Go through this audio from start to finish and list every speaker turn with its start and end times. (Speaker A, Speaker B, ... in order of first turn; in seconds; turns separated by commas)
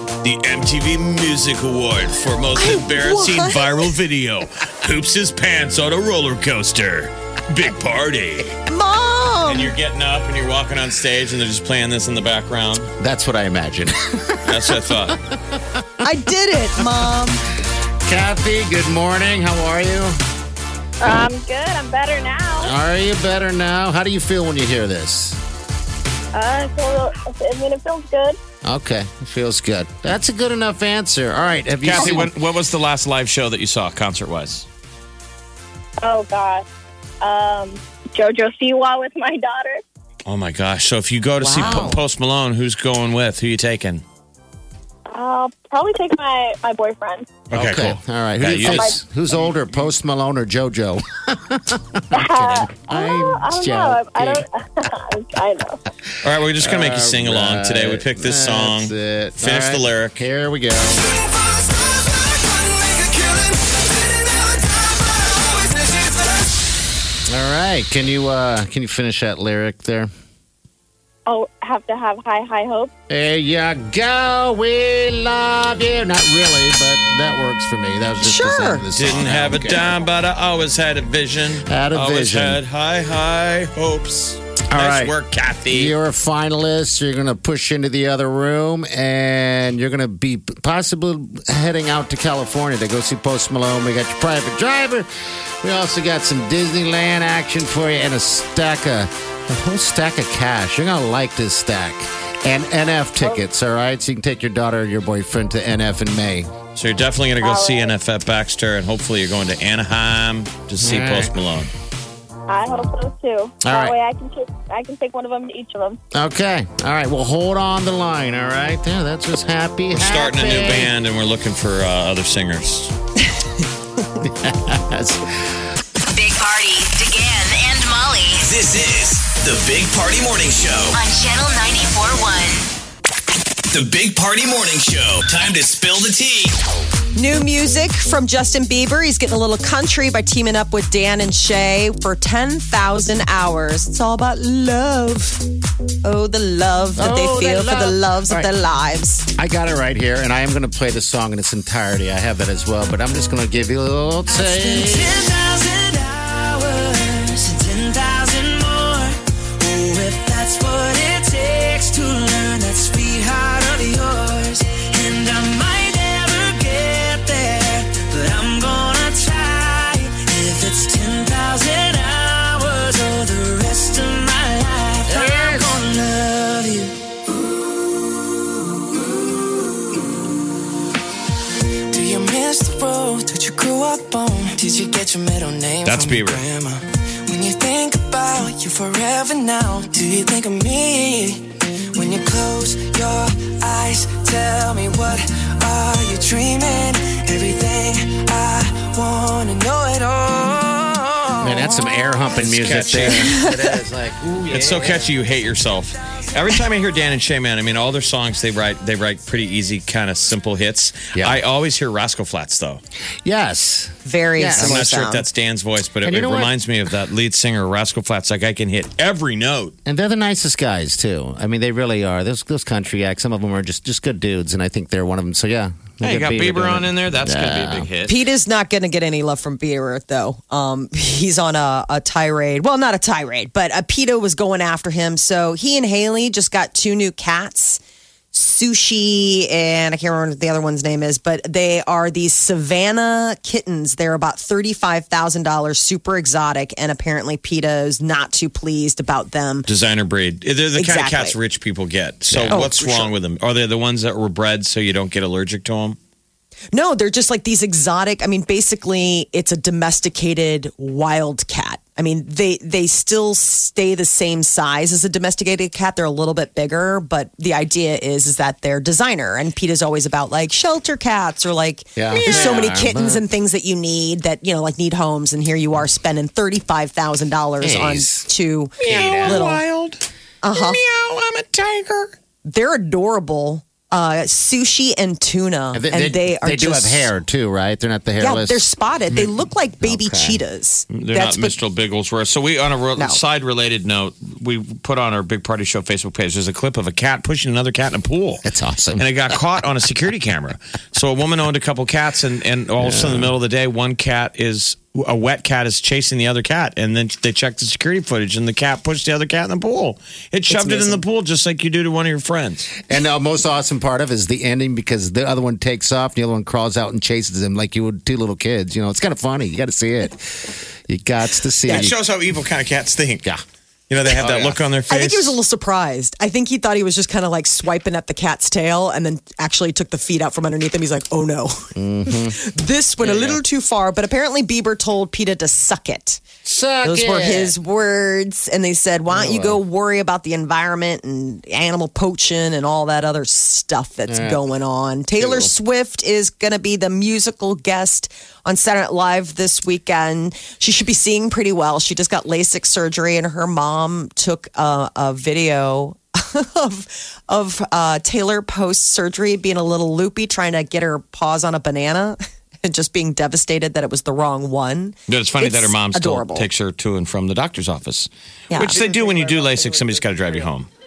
Speaker A: 0.2-8.6, Speaker B: 2.5-3.8, Speaker B: 8.7-9.7, Speaker A: 9.4-12.9, Speaker C: 13.0-16.1, Speaker A: 14.4-15.2, Speaker B: 16.0-17.4, Speaker C: 16.8-17.1, Speaker C: 18.1-20.1, Speaker D: 21.0-22.7, Speaker C: 22.6-25.4, Speaker D: 26.3-28.4, Speaker C: 28.6-32.3, Speaker A: 31.8-34.7, Speaker D: 36.0-36.6, Speaker D: 37.2-39.8, Speaker A: 40.2-44.0, Speaker B: 41.4-42.0, Speaker D: 45.1-47.3, Speaker A: 47.5-48.9, Speaker C: 47.5-54.4, Speaker D: 48.6-49.0, Speaker D: 52.1-55.8, Speaker A: 56.2-60.2, Speaker C: 56.6-61.0, Speaker E: 62.3-66.4, Speaker C: 67.3-70.1, Speaker D: 71.2-72.9, Speaker C: 73.1-80.0, Speaker B: 78.2-78.8, Speaker A: 78.9-85.9, Speaker C: 81.7-82.6, Speaker C: 84.7-85.1, Speaker C: 85.7-95.1, Speaker C: 95.6-106.5, Speaker A: 106.7-111.7, Speaker D: 107.4-107.9, Speaker C: 110.8-111.3, Speaker D: 112.5-116.0, Speaker C: 113.6-114.0, Speaker C: 116.1-120.9, Speaker A: 119.9-122.9, Speaker C: 124.2-125.6, Speaker F: 126.1-128.5, Speaker G: 128.4-131.0, Speaker F: 130.9-132.6, Speaker G: 133.7-136.6, Speaker B: 137.1-145.4, Speaker B: 146.0-149.3, Speaker C: 146.9-148.5, Speaker C: 149.4-155.2, Speaker E: 154.3-177.0, Speaker C: 175.1-175.8, Speaker E: 181.9-202.0, Speaker A: 185.8-186.4, Speaker C: 201.4-205.1, Speaker A: 202.3-203.4, Speaker B: 203.3-203.7, Speaker A: 204.5-212.8, Speaker C: 211.1-211.4, Speaker C: 213.2-214.8, Speaker B: 214.0-215.2, Speaker A: 214.5-219.7, Speaker C: 216.0-216.5, Speaker C: 219.8-227.9, Speaker A: 226.0-228.2, Speaker B: 228.1-237.8, Speaker B: 238.3-249.7, Speaker A: 249.7-256.0, Speaker B: 250.8-251.3, Speaker C: 252.3-252.7, Speaker B: 252.5-253.1, Speaker B: 256.7-279.6, Speaker C: 271.9-273.2, Speaker A: 272.1-272.5, Speaker C: 277.6-278.3, Speaker A: 278.8-280.0, Speaker C: 278.9-279.4, Speaker B: 280.4-280.8, Speaker A: 280.6-282.1, Speaker B: 282.4-287.1, Speaker C: 285.7-288.6, Speaker B: 288.2-291.5, Speaker C: 289.8-290.4, Speaker A: 290.9-298.4, Speaker C: 298.4-299.4, Speaker A: 299.0-312.7, Speaker C: 302.8-303.3, Speaker C: 312.9-322.0, Speaker B: 321.6-321.9, Speaker A: 321.7-323.2, Speaker A: 323.9-325.4, Speaker C: 324.2-324.6, Speaker B: 324.9-336.2, Speaker C: 331.8-332.4, Speaker C: 333.0-333.4, Speaker C: 336.4-337.5, Speaker B: 336.8-366.4, Speaker C: 339.1-339.6, Speaker C: 344.1-344.4, Speaker C: 345.2-345.5, Speaker A: 365.1-370.7, Speaker B: 368.5-369.6